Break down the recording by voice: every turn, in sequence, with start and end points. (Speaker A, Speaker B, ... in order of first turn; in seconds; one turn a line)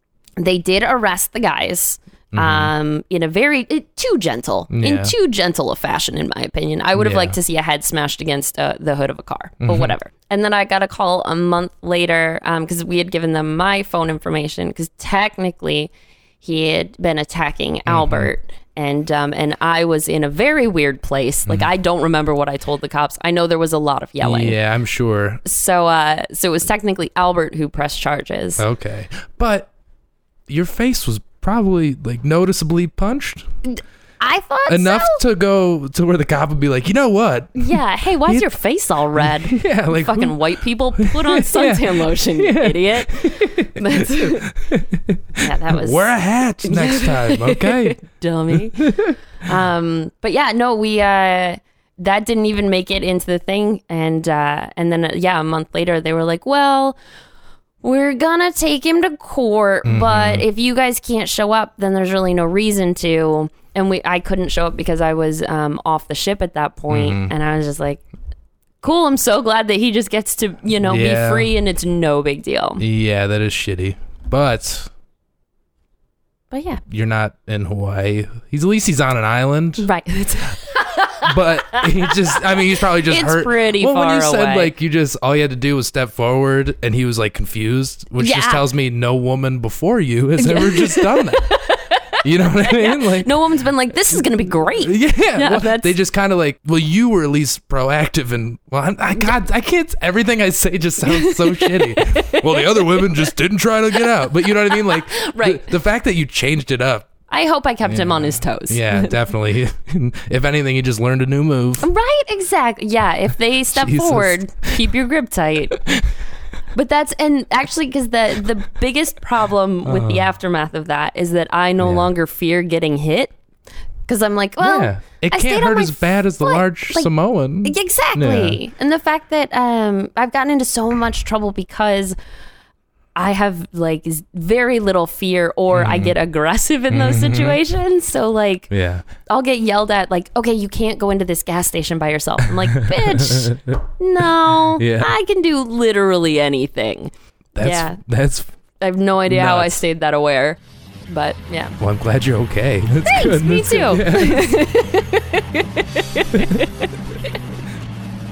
Speaker A: 0.4-24.6
Speaker B: 2.3-2.7
Speaker B: 4.7-5.1
Speaker B: 7.0-7.4
Speaker B: 9.6-9.9
Speaker B: 17.9-18.3
Speaker B: 24.2-25.4
Speaker A: 25.4-28.6
Speaker B: 28.6-29.7
Speaker B: 30.5-33.5
Speaker A: 33.6-35.2
Speaker B: 34.7-38.5
Speaker A: 37.5-44.5
Speaker B: 39.1-48.0
Speaker A: 45.4-46.1
Speaker A: 46.6-57.0
Speaker B: 48.5-49.1
Speaker A: 57.8-68.0
Speaker B: 59.8-60.4
Speaker B: 66.9-67.3
Speaker A: 68.8-72.8
Speaker B: 70.8-71.5
Speaker B: 72.8-74.9
Speaker A: 76.5-76.8
Speaker B: 76.9-79.9
Speaker A: 79.8-84.7
Speaker B: 81.2-91.5
Speaker A: 88.2-88.7
Speaker A: 90.4-95.9
Speaker B: 92.2-93.3
Speaker B: 94.8-107.1
Speaker A: 101.0-103.3
Speaker A: 104.0-105.8
Speaker A: 107.3-109.2
Speaker B: 107.8-111.9
Speaker A: 111.8-115.8
Speaker B: 113.7-114.8
Speaker A: 116.7-123.3
Speaker B: 119.8-120.2
Speaker B: 121.8-122.1
Speaker A: 124.1-127.1
Speaker B: 124.6-128.6
Speaker A: 127.6-132.2
Speaker A: 133.2-138.7
Speaker B: 135.7-136.2
Speaker B: 136.9-137.6
Speaker B: 138.7-139.0
Speaker A: 139.3-148.0
Speaker B: 142.8-143.8
Speaker B: 144.8-145.1
Speaker B: 147.5-148.5
Speaker A: 148.8-151.8
Speaker B: 149.3-149.8
Speaker B: 151.8-154.6
Speaker A: 153.0-156.9
Speaker B: 156.3-156.6